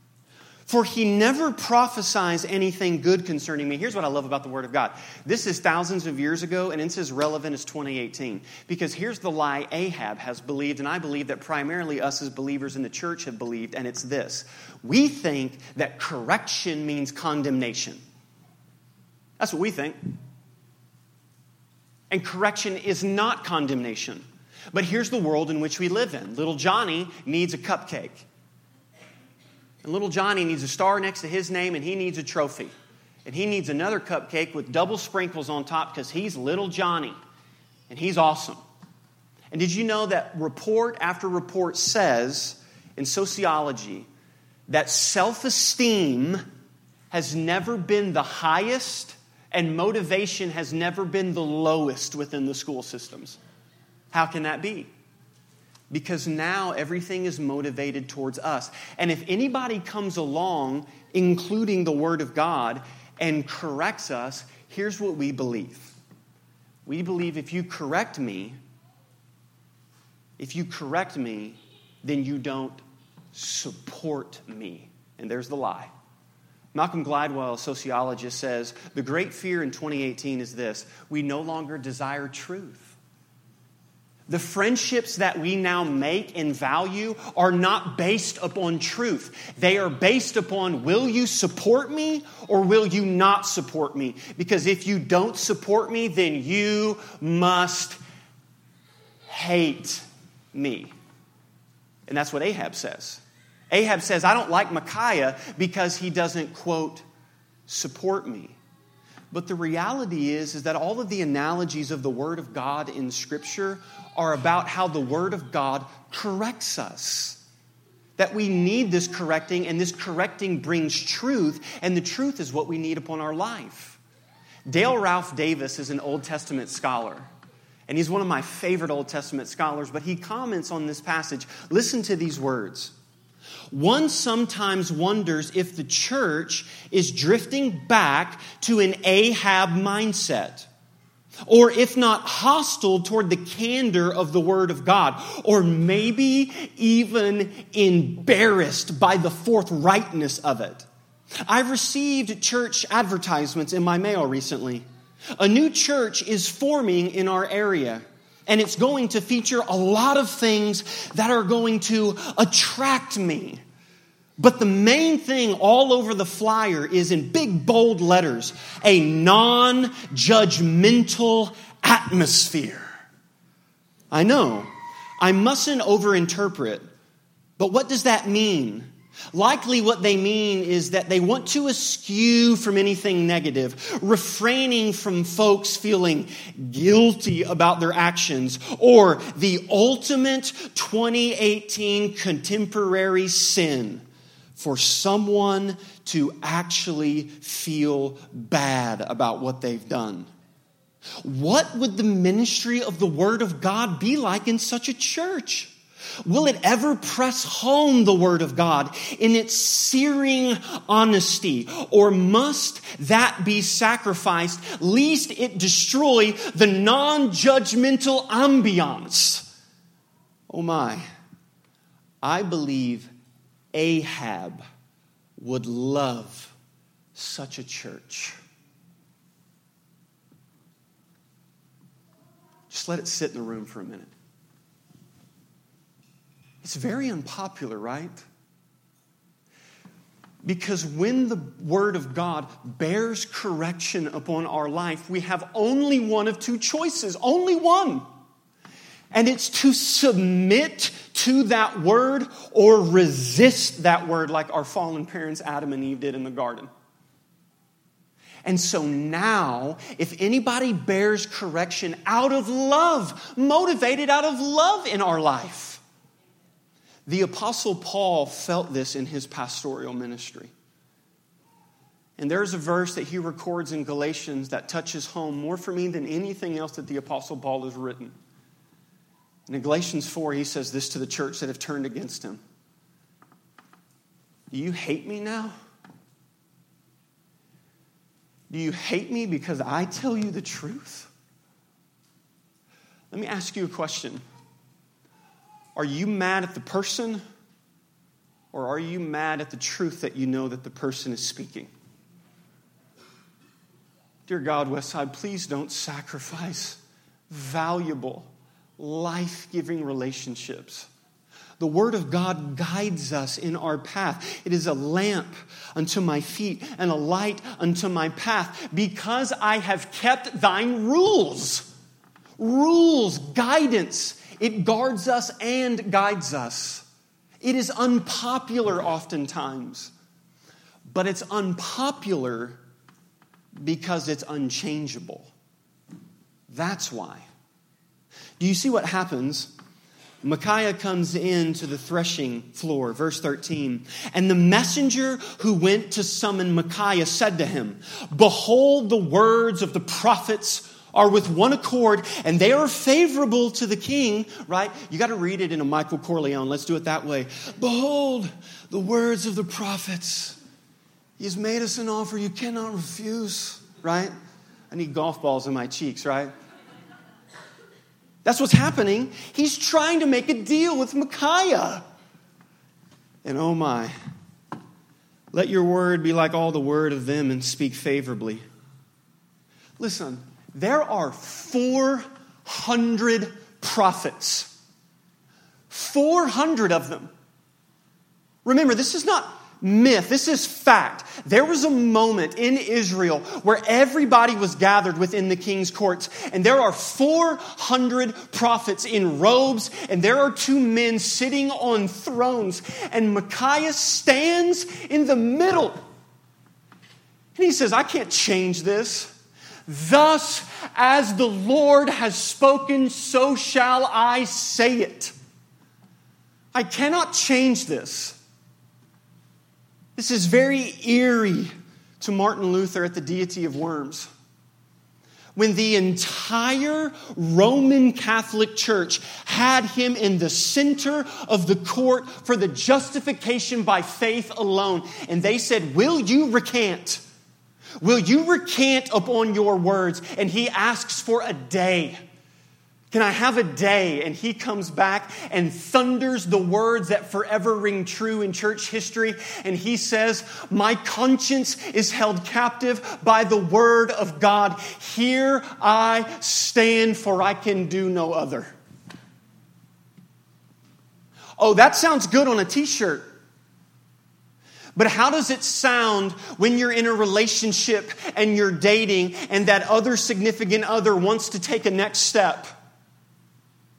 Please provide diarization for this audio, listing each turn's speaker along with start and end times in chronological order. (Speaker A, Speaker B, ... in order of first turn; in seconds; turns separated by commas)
Speaker A: 0.7-18.0, Speaker A: 19.4-20.0, Speaker A: 22.1-28.2, Speaker A: 29.8-32.7, Speaker A: 33.2-37.2, Speaker A: 37.9-38.6, Speaker A: 39.5-44.1, Speaker A: 44.7-46.4, Speaker A: 47.1-53.4, Speaker A: 54.1-54.9, Speaker A: 55.9-65.9, Speaker A: 66.8-68.6, Speaker A: 70.4-72.8, Speaker A: 73.3-75.9, Speaker A: 76.7-83.0, Speaker A: 84.3-98.0, Speaker A: 99.3-100.9, Speaker A: 102.1-107.0, Speaker A: 107.7-108.5, Speaker A: 109.3-117.4, Speaker A: 118.2-124.0, Speaker A: 124.7-127.3, Speaker A: 127.9-132.9, Speaker A: 133.7-140.7, Speaker A: 141.5-150.9, Speaker A: 151.4-154.8, Speaker A: 155.4-163.6, Speaker A: 164.4-172.8, Speaker A: 174.1-174.7, Speaker A: 175.2-176.8, Speaker A: 177.6-194.0, Speaker A: 194.6-200.3, Speaker A: 201.2-205.7, Speaker A: 206.2-219.5, Speaker A: 220.5-221.0, Speaker A: 222.2-223.1, Speaker A: 223.7-224.6, Speaker A: 225.4-226.5, Speaker A: 227.1-228.3, Speaker A: 232.7-234.1, Speaker A: 236.6-238.2, Speaker A: 240.4-248.0, Speaker A: 249.1-256.7, Speaker A: 258.4-265.8, Speaker A: 267.1-270.5, Speaker A: 272.2-278.1, Speaker A: 279.5-282.4, Speaker A: 284.5-285.5, Speaker A: 288.5-291.1, Speaker A: 293.1-294.2, Speaker A: 295.8-297.2, Speaker A: 298.5-301.7, Speaker A: 304.3-310.9, Speaker A: 311.6-321.7, Speaker A: 322.4-326.8, Speaker A: 327.4-329.9, Speaker A: 330.9-332.6, Speaker A: 333.6-335.3, Speaker A: 336.5-337.2, Speaker A: 338.4-339.5, Speaker A: 340.2-360.4, Speaker A: 361.2-364.1, Speaker A: 364.7-366.3, Speaker A: 368.2-371.8, Speaker A: 373.2-373.9, Speaker A: 375.3-378.4, Speaker A: 379.8-384.5, Speaker A: 385.7-387.1, Speaker A: 388.4-405.8, Speaker A: 407.4-409.1, Speaker A: 409.7-415.1, Speaker A: 416.5-418.2, Speaker A: 419.9-424.1, Speaker A: 425.4-437.0, Speaker A: 437.8-442.0, Speaker A: 442.9-458.5, Speaker A: 461.4-463.1, Speaker A: 464.8-472.5